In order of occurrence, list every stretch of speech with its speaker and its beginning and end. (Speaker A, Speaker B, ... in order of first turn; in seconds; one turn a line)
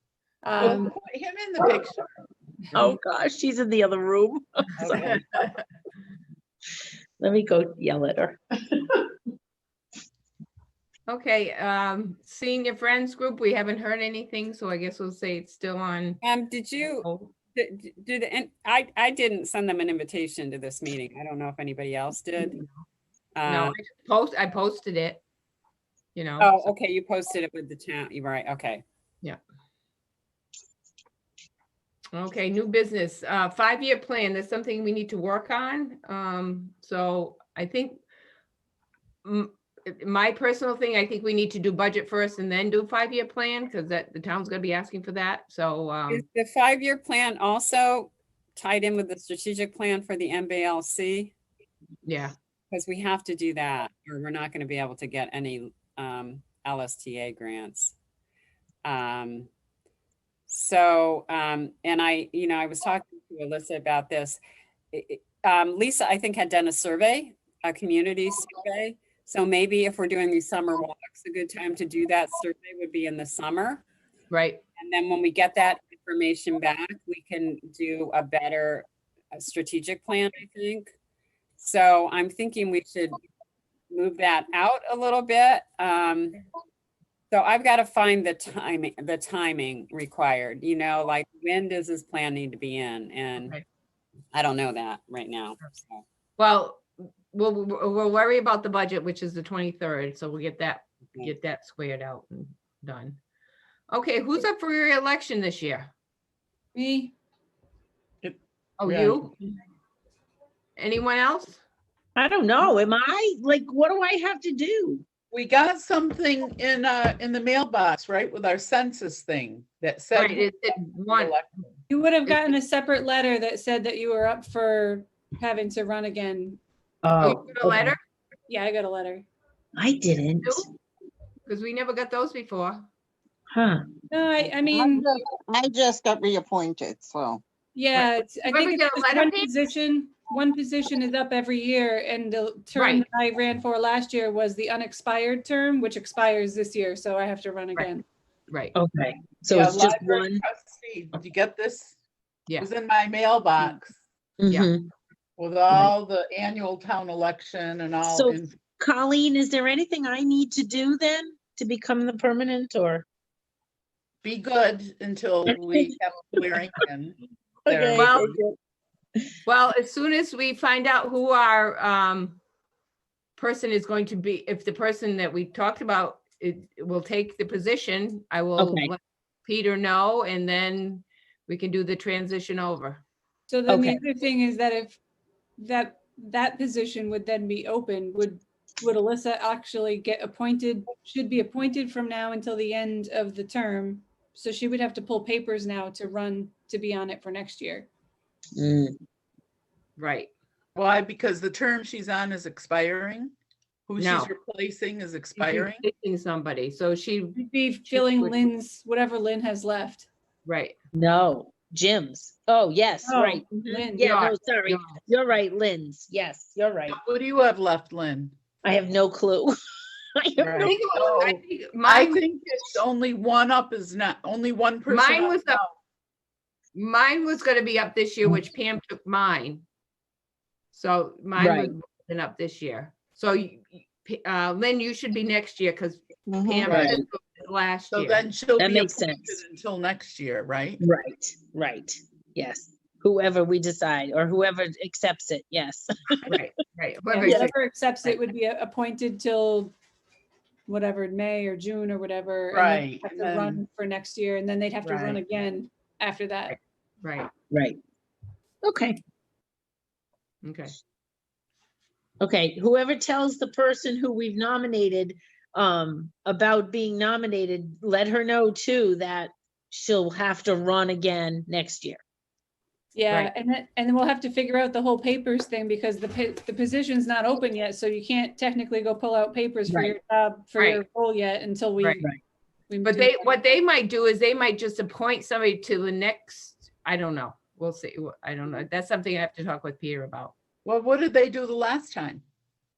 Speaker A: 0.4-0.9
Speaker B: 0.6-2.1
Speaker C: 2.7-5.2
Speaker D: 4.8-5.5
Speaker C: 7.2-9.0
Speaker D: 11.1-16.2
Speaker E: 16.2-22.6
Speaker D: 17.0-17.3
Speaker D: 22.4-22.8
Speaker E: 23.4-23.8
Speaker D: 23.4-25.2
Speaker D: 26.1-26.7
Speaker E: 26.4-28.8
Speaker D: 32.1-38.0
Speaker D: 39.2-46.2
Speaker E: 46.1-51.3
Speaker D: 52.0-52.3
Speaker E: 52.7-57.9
Speaker E: 58.8-59.5
Speaker E: 60.5-64.4
Speaker E: 64.9-73.8
Speaker D: 74.3-74.6
Speaker E: 74.8-80.9
Speaker E: 81.6-83.2
Speaker E: 83.9-86.4
Speaker E: 87.3-93.6
Speaker E: 94.3-96.0
Speaker D: 96.4-103.2
Speaker D: 103.9-105.9
Speaker A: 106.7-107.1
Speaker B: 108.2-109.3
Speaker D: 108.8-109.3
Speaker D: 110.8-111.6
Speaker C: 112.2-115.0
Speaker B: 115.3-121.5
Speaker D: 120.1-121.7
Speaker A: 121.9-126.6
Speaker C: 127.0-127.9
Speaker D: 127.2-128.0
Speaker A: 128.5-129.3
Speaker C: 129.8-130.6
Speaker D: 131.4-132.9
Speaker C: 133.5-133.8
Speaker A: 134.1-135.1
Speaker F: 134.7-137.4
Speaker A: 137.7-148.0
Speaker D: 137.9-139.5
Speaker D: 142.7-143.1
Speaker D: 148.5-148.7
Speaker C: 148.7-150.4
Speaker B: 149.5-151.9
Speaker B: 152.6-154.0
Speaker C: 154.4-154.9
Speaker B: 155.4-158.5
Speaker C: 158.0-163.0
Speaker B: 164.2-167.2
Speaker C: 165.5-165.9
Speaker C: 167.7-168.5
Speaker B: 167.7-168.4
Speaker D: 167.9-168.3
Speaker D: 169.4-172.4
Speaker D: 173.4-183.0
Speaker C: 178.6-178.9
Speaker A: 183.5-185.0
Speaker C: 183.7-184.0
Speaker A: 185.6-197.9
Speaker C: 198.6-198.9
Speaker D: 200.0-200.3
Speaker B: 200.7-203.3
Speaker B: 203.9-205.8
Speaker D: 204.0-204.3
Speaker D: 205.4-207.4
Speaker A: 207.3-210.1
Speaker D: 207.9-208.4
Speaker D: 210.4-210.7
Speaker C: 210.9-217.0
Speaker A: 213.0-214.1
Speaker D: 214.0-215.0
Speaker B: 216.9-218.3
Speaker C: 218.6-219.5
Speaker C: 220.2-220.9
Speaker B: 220.4-225.7
Speaker D: 220.6-222.2
Speaker D: 224.9-225.6
Speaker D: 226.7-229.6
Speaker D: 230.7-238.2
Speaker C: 231.4-231.7
Speaker C: 236.6-237.1
Speaker B: 236.7-237.0
Speaker B: 237.9-240.8
Speaker C: 238.6-239.4
Speaker C: 240.8-246.4
Speaker D: 246.3-247.5
Speaker A: 247.1-249.7
Speaker C: 247.2-247.5
Speaker A: 250.7-256.6
Speaker B: 252.5-253.6
Speaker B: 254.8-255.2
Speaker D: 256.5-257.3
Speaker C: 257.5-257.8
Speaker C: 258.6-259.0
Speaker D: 260.4-260.7
Speaker C: 262.2-272.0
Speaker A: 272.9-282.1
Speaker C: 279.7-280.0
Speaker D: 280.6-280.8
Speaker A: 282.7-283.4
Speaker D: 282.8-290.3
Speaker B: 290.6-292.2